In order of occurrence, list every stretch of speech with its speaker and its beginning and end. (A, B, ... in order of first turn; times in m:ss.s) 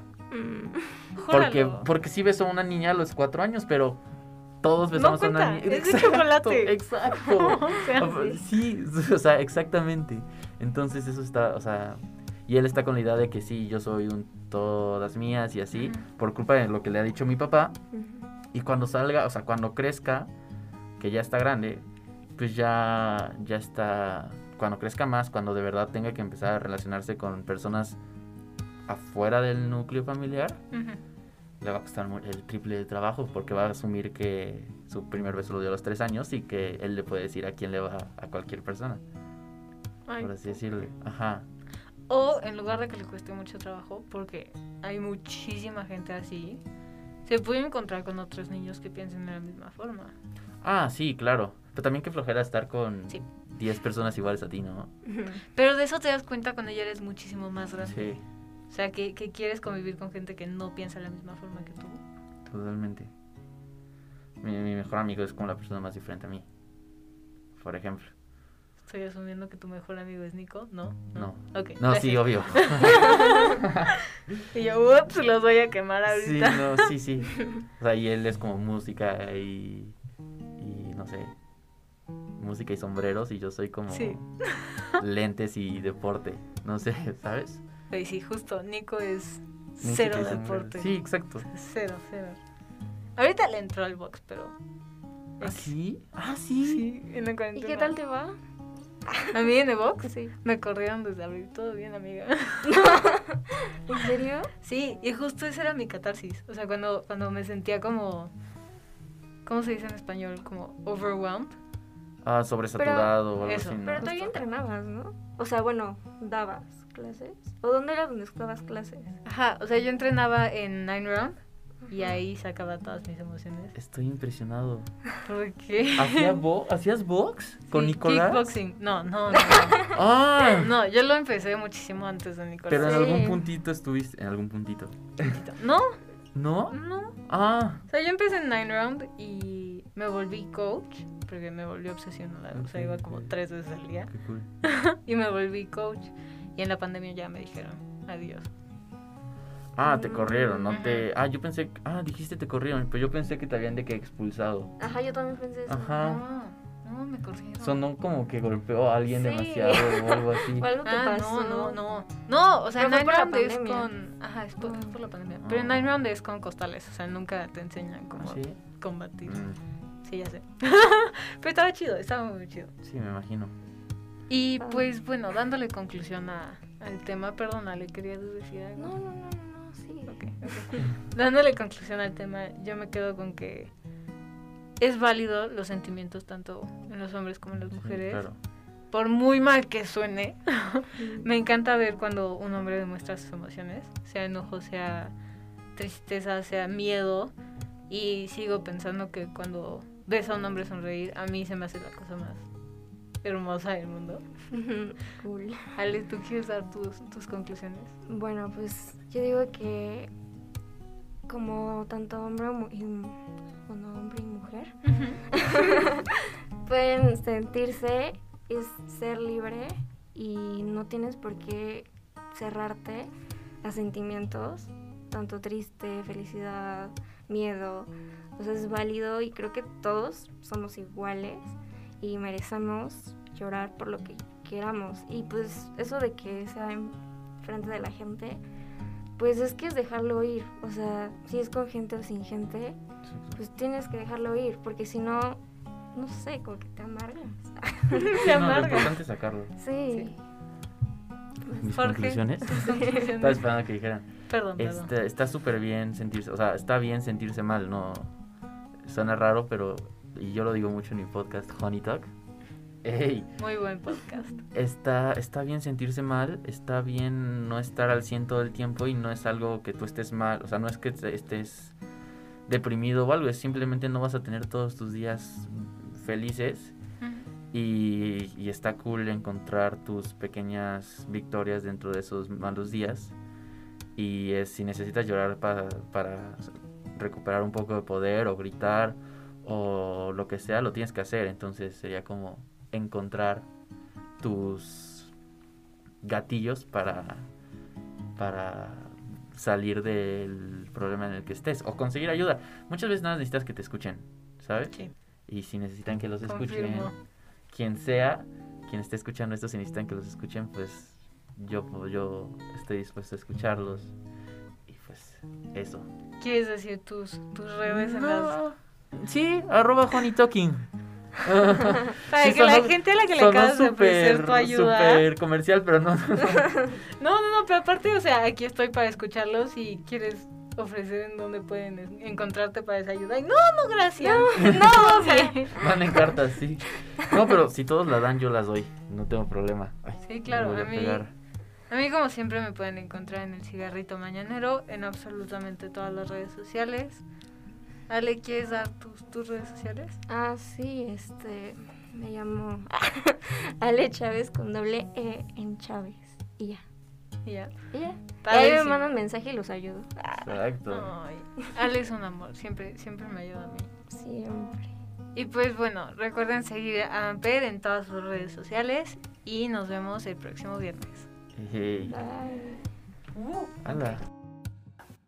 0:00.3-0:01.1 A
0:01.2-0:01.9 B
0:01.3-0:04.0 C
0:04.6-0:17.8 C
0:04.9-0:08.1 B
0:08.0-0:08.4 A
0:15.7-0:16.0 B
0:17.9-0:18.2 A
0:18.5-0:20.3 C
0:21.0-0:21.8 C
0:22.4-0:28.0 C
0:28.9-0:30.6 C
0:30.7-0:31.0 B
0:31.6-0:39.0 C
0:40.1-0:40.6 B
0:40.2-0:41.5 C
0:42.1-0:46.6 B
0:47.2-0:50.1 B
0:50.6-0:54.9 C
0:55.1-0:55.4 A
0:55.6-0:58.1 B
0:57.8-0:58.2 C
0:58.7-1:02.0 B
1:02.5-1:03.1 C
1:04.4-1:06.5 C
1:07.6-1:08.1 C
1:08.8-1:13.7 B
1:11.2-1:13.8 C
1:14.5-1:16.9 B
1:16.1-1:20.0 C
1:20.6-1:21.4 C
1:22.4-1:24.3 C
1:23.9-1:25.0 B
1:24.9-1:27.6 C
1:27.9-1:30.9 B
1:29.8-1:31.5 C
1:31.5-1:32.4 B
1:33.2-1:34.6 B
1:35.4-1:35.7 B
1:35.4-1:36.8 C
1:36.6-1:38.0 B
1:37.6-1:38.4 A
1:39.1-1:39.3 A
1:39.3-1:43.1 B
1:40.1-1:40.3 A
1:42.7-1:44.5 A
1:44.6-1:48.3 B
1:49.4-1:51.6 B
1:52.2-1:54.1 C
1:52.8-1:53.2 A
1:53.4-1:54.4 B
1:53.8-1:59.2 A
1:59.2-2:03.7 B
2:03.8-2:04.9 C
2:05.2-2:06.4 B
2:06.0-2:08.6 C
2:07.7-2:10.0 B
2:09.9-2:10.7 C
2:10.5-2:13.2 B
2:12.7-2:15.4 C
2:12.8-2:13.4 A
2:15.2-2:16.0 B
2:16.4-2:17.8 C
2:16.7-2:17.2 B
2:17.9-2:24.1 B
2:22.5-2:23.3 C
2:24.1-2:24.5 C
2:24.6-2:28.5 B
2:29.8-2:34.8 C
2:29.8-2:30.8 A
2:30.7-2:31.0 B
2:34.8-2:36.0 A
2:35.7-2:36.2 C
2:36.0-2:37.8 B
2:37.6-2:40.7 C
2:39.1-2:41.8 A
2:40.8-2:49.4 B
2:42.8-2:43.9 A
2:44.6-2:45.0 A
2:45.4-2:45.9 C
2:48.2-2:48.6 C
2:49.2-2:49.6 C
2:50.0-2:52.7 B
2:52.8-2:53.5 C
2:54.3-2:59.0 B
2:58.8-3:00.2 A
3:00.1-3:03.7 B
3:04.8-3:08.3 B
3:07.7-3:08.4 C
3:08.9-3:15.1 B
3:11.0-3:11.3 A
3:15.8-3:17.3 B
3:17.9-3:22.5 B
3:23.2-3:24.2 B
3:24.5-3:25.7 A
3:25.8-3:28.0 B
3:28.1-3:30.1 A
3:31.3-3:34.8 A
3:34.8-3:35.2 B
3:35.3-3:43.1 A
3:43.6-3:58.4 A
3:59.2-4:02.8 A
4:03.1-4:03.4 C
4:03.4-4:05.4 A
4:06.0-4:08.3 A
4:07.9-4:08.9 B
4:08.2-4:09.5 C
4:09.6-4:10.2 A
4:11.4-4:18.1 C
4:11.7-4:13.5 B
4:12.7-4:13.0 A
4:14.3-4:14.9 B
4:18.8-4:22.1 C
4:22.8-4:23.3 C
4:23.4-4:24.4 B
4:24.5-4:31.8 C
4:32.5-4:36.8 C
4:37.0-4:37.3 B
4:37.5-4:43.2 C
4:44.0-4:53.5 C
4:54.2-4:55.1 C
4:56.0-4:57.3 C
4:58.2-5:06.9 C
5:06.3-5:07.0 B
5:07.5-5:13.9 C
5:14.7-5:15.9 C
5:16.2-5:18.4 B
5:17.7-5:20.7 C
5:21.2-5:26.7 C
5:22.1-5:25.0 B
5:27.0-5:35.5 B
5:34.0-5:36.0 A
5:34.4-5:34.9 C
5:35.5-5:41.1 C
5:40.0-5:41.0 B
5:41.7-5:47.0 B
5:47.9-5:50.0 B
5:50.1-5:56.6 A
5:57.3-5:57.5 B
5:57.7-6:00.2 A
5:58.2-5:58.9 B
6:00.1-6:00.9 C
6:00.7-6:03.7 B
6:03.9-6:04.7 A
6:05.2-6:11.1 B
6:11.4-6:12.0 C
6:11.9-6:12.6 A
6:13.2-6:14.0 B
6:13.6-6:14.0 C